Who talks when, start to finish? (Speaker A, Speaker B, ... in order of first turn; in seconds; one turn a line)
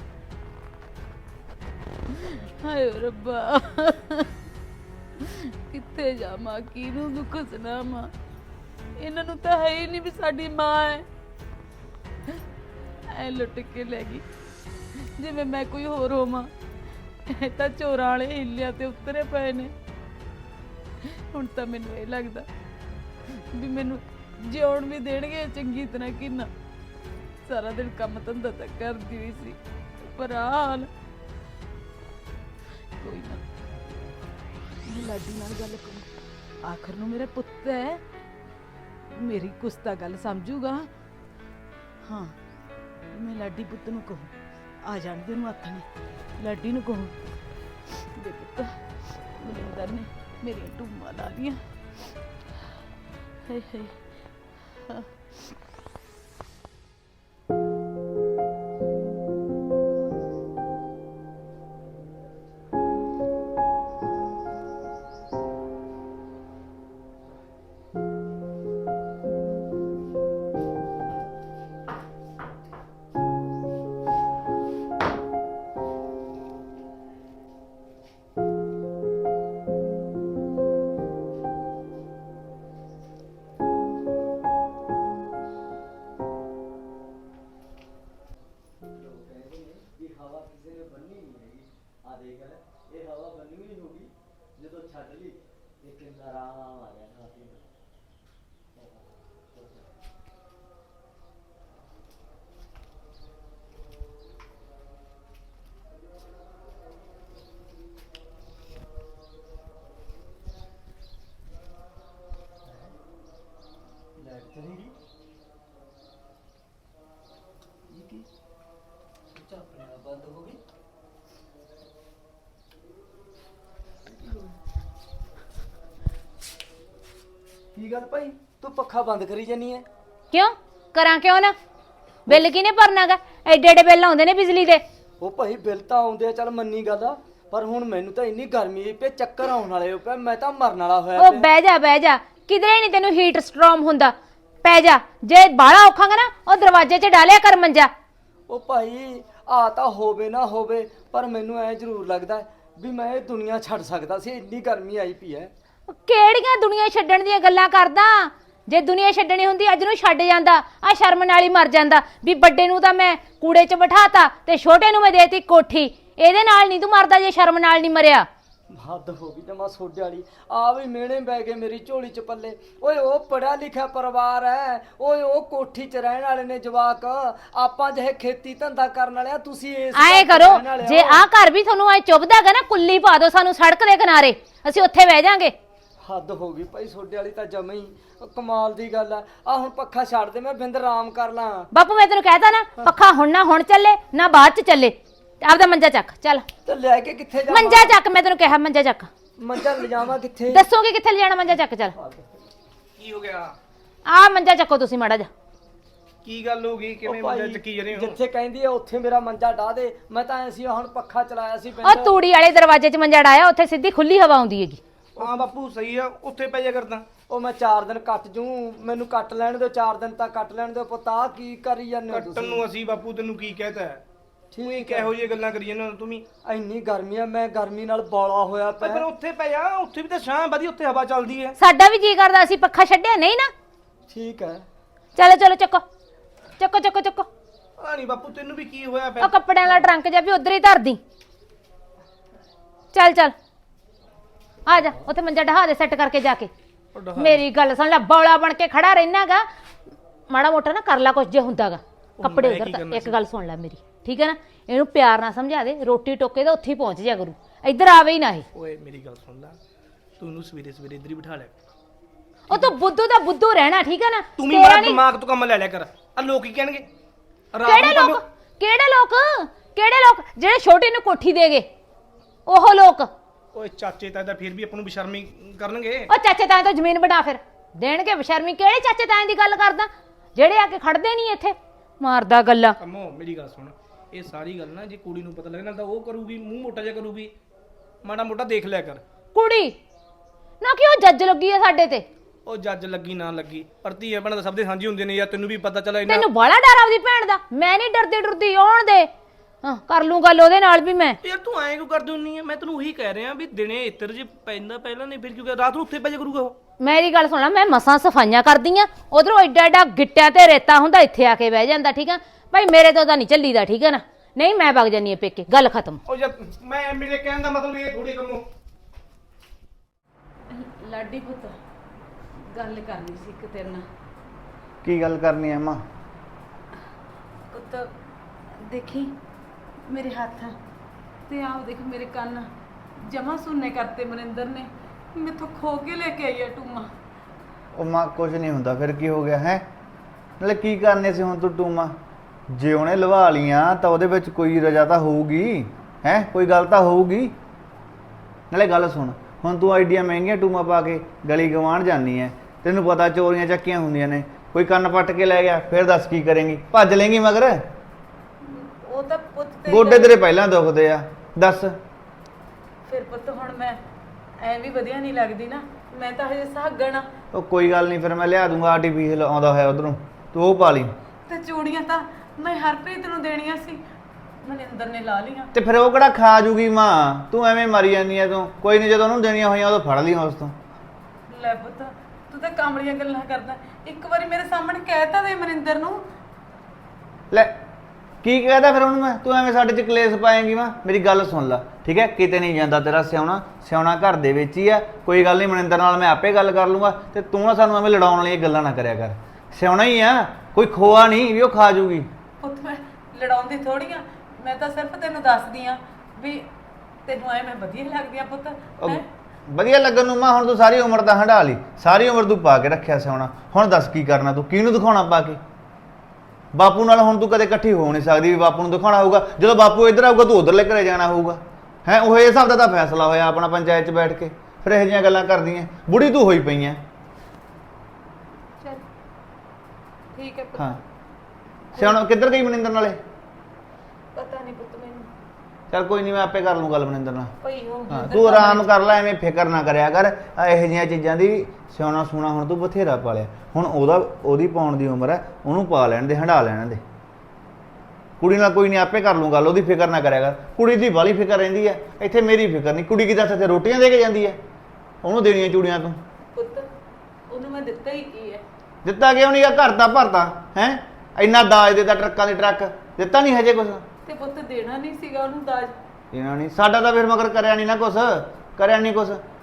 Speaker A: 2.1-4.3
Speaker A: 5.2-8.1
Speaker A: 9.0-11.0
Speaker A: 13.1-14.2
Speaker A: 15.0-16.5
Speaker A: 17.2-19.7
Speaker A: 21.0-22.5
Speaker A: 23.3-26.5
Speaker A: 27.4-30.9
Speaker A: 33.0-33.4
Speaker A: 34.8-36.1
Speaker A: 36.6-38.0
Speaker A: 39.1-40.9
Speaker A: 42.0-42.4
Speaker A: 43.1-44.3
Speaker A: 44.8-45.9
Speaker A: 46.4-47.1
Speaker A: 48.1-51.6
Speaker A: 53.5-54.0
Speaker B: 88.9-97.7
Speaker B: 98.7-99.9
Speaker B: 112.6-113.0
Speaker B: 114.2-114.9
Speaker B: 117.9-118.3
Speaker B: 119.3-120.6
Speaker B: 124.0-124.5
Speaker B: 127.7-129.8
Speaker C: 130.3-131.5
Speaker C: 132.2-134.8
Speaker B: 135.2-141.5
Speaker C: 141.2-147.9
Speaker B: 148.5-155.5
Speaker C: 155.9-168.3
Speaker B: 168.7-181.2
Speaker C: 179.9-185.5
Speaker B: 186.0-191.7
Speaker C: 191.7-196.4
Speaker B: 196.7-197.9
Speaker C: 197.5-199.1
Speaker B: 199.4-200.7
Speaker C: 200.5-201.9
Speaker B: 201.9-202.4
Speaker D: 203.0-203.5
Speaker C: 204.1-205.3
Speaker D: 206.2-208.2
Speaker B: 207.0-212.2
Speaker C: 211.8-214.8
Speaker D: 215.2-217.1
Speaker B: 215.2-215.4
Speaker B: 217.3-222.6
Speaker D: 222.1-224.0
Speaker B: 224.5-225.1
Speaker D: 224.6-226.2
Speaker B: 226.4-229.1
Speaker D: 228.8-231.5
Speaker C: 231.6-233.5
Speaker B: 234.1-234.6
Speaker C: 235.2-235.8
Speaker C: 236.6-237.3
Speaker D: 237.8-239.8
Speaker C: 239.2-241.0
Speaker C: 242.9-243.3
Speaker C: 244.7-246.5
Speaker D: 246.9-247.4
Speaker C: 247.2-249.5
Speaker C: 250.3-258.4
Speaker D: 252.2-253.1
Speaker D: 258.5-259.6
Speaker D: 260.2-261.5
Speaker C: 262.5-265.0
Speaker D: 264.4-266.8
Speaker D: 267.5-268.2
Speaker C: 267.6-271.7
Speaker C: 272.5-273.1
Speaker D: 273.5-276.1
Speaker C: 276.1-282.8
Speaker D: 282.8-287.3
Speaker D: 288.0-289.0
Speaker C: 289.3-289.8
Speaker C: 290.6-292.1
Speaker D: 292.4-296.2
Speaker C: 296.1-299.1
Speaker C: 299.6-301.2
Speaker D: 301.2-306.5
Speaker C: 306.8-316.0
Speaker D: 316.1-318.4
Speaker A: 320.5-321.6
Speaker A: 322.5-323.9
Speaker E: 324.8-325.8
Speaker A: 327.5-327.9
Speaker A: 328.6-329.2
Speaker A: 329.8-330.6
Speaker A: 331.2-332.5
Speaker A: 333.0-336.9
Speaker E: 337.7-339.6
Speaker E: 340.4-341.9
Speaker E: 342.5-347.4
Speaker E: 348.5-357.7
Speaker A: 358.4-360.2
Speaker E: 359.7-361.8
Speaker A: 362.8-363.8
Speaker A: 364.4-367.1
Speaker E: 367.3-370.9
Speaker A: 371.3-373.8
Speaker A: 374.4-375.5
Speaker E: 375.5-380.6
Speaker A: 381.3-386.1
Speaker E: 387.3-387.6
Speaker E: 388.2-402.1
Speaker A: 402.4-406.5
Speaker A: 407.1-409.0
Speaker E: 408.8-415.4
Speaker E: 416.5-426.8
Speaker A: 430.1-430.7
Speaker E: 431.7-433.0
Speaker A: 434.1-435.1
Speaker E: 435.7-437.3
Speaker A: 437.4-438.7
Speaker E: 437.9-446.8
Speaker E: 448.2-454.4
Speaker E: 455.0-456.0
Speaker A: 456.3-456.7
Speaker A: 457.3-458.4
Speaker E: 458.8-463.9
Speaker A: 464.0-465.8
Speaker E: 466.1-469.2